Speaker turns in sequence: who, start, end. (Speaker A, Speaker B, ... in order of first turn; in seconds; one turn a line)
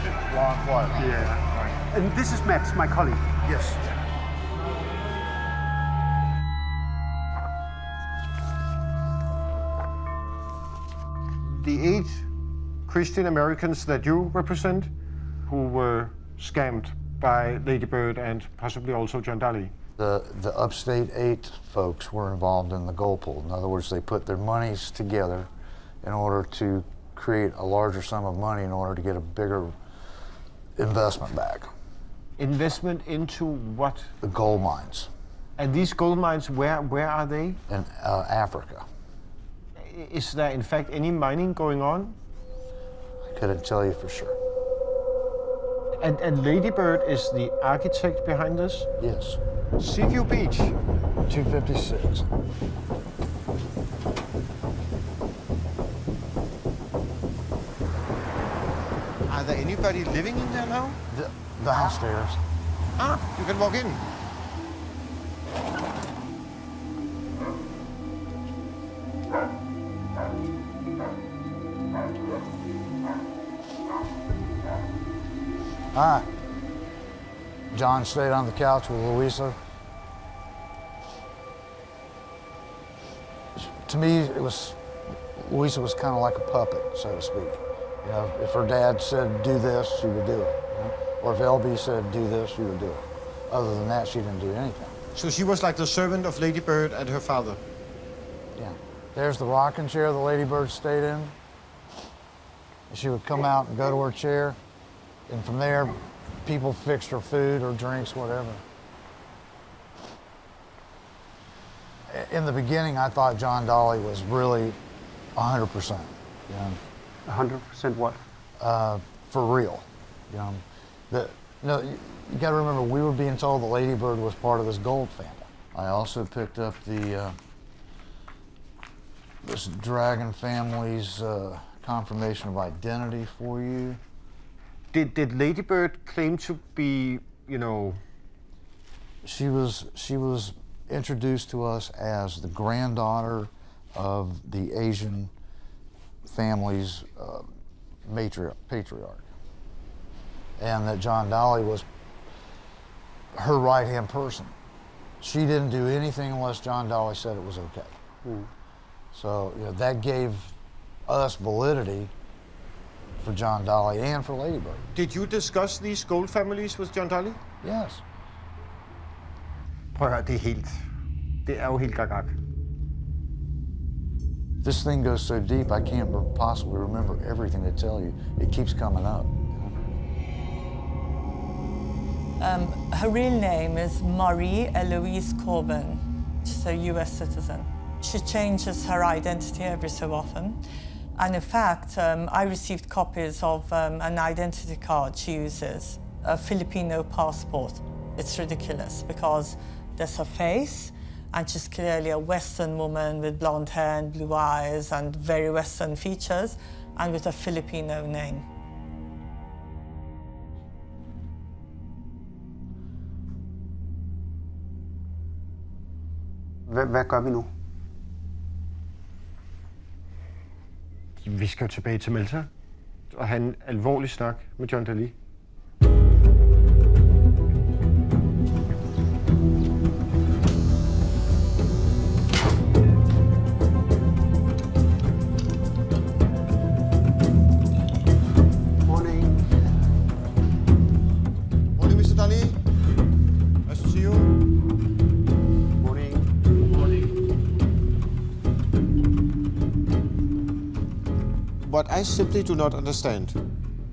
Speaker A: 0.3-1.1
Speaker B: 1.9-3.4
Speaker C: 11.4-12.3
Speaker C: 12.9-14.9
Speaker C: 15.5-19.7
Speaker A: 20.0-25.5
Speaker A: 26.0-29.7
Speaker A: 30.8-31.7
Speaker C: 32.4-34.1
Speaker A: 34.2-35.1
Speaker C: 35.6-37.6
Speaker A: 37.7-38.9
Speaker C: 39.8-42.2
Speaker A: 43.3-44.4
Speaker C: 46.0-48.9
Speaker A: 49.0-49.4
Speaker C: 49.8-50.8
Speaker A: 51.3-52.3
Speaker C: 59.3-61.0
Speaker A: 61.1-62.4
Speaker C: 63.0-64.0
Speaker A: 75.9-76.3
Speaker A: 77.7-79.6
Speaker A: 83.6-95.0
Speaker C: 95.1-97.6
Speaker A: 98.6-101.3
Speaker A: 102.9-104.6
Speaker A: 105.3-108.6
Speaker A: 112.1-114.8
Speaker A: 115.4-116.8
Speaker B: 117.3-118.2
Speaker A: 118.6-127.4
Speaker A: 129.4-134.0
Speaker C: 134.9-138.0
Speaker A: 139.2-145.3
Speaker A: 146.2-147.5
Speaker A: 148.1-149.3
Speaker A: 150.6-151.9
Speaker A: 153.3-154.6
Speaker A: 155.2-158.0
Speaker B: 158.2-158.5
Speaker A: 159.1-160.5
Speaker A: 161.1-162.1
Speaker A: 163.2-164.9
Speaker C: 164.9-167.4
Speaker A: 167.6-168.0
Speaker C: 169.9-170.9
Speaker C: 171.5-172.4
Speaker A: 174.6-179.8
Speaker D: 182.4-190.6
Speaker D: 191.2-208.4
Speaker B: 216.7-217.5
Speaker C: 221.2-222.5
Speaker C: 223.1-225.2
Speaker B: 238.8-239.6
Speaker C: 241.8-242.6
Speaker C: 243.7-244.3
Speaker B: 245.8-246.2
Speaker C: 251.6-253.4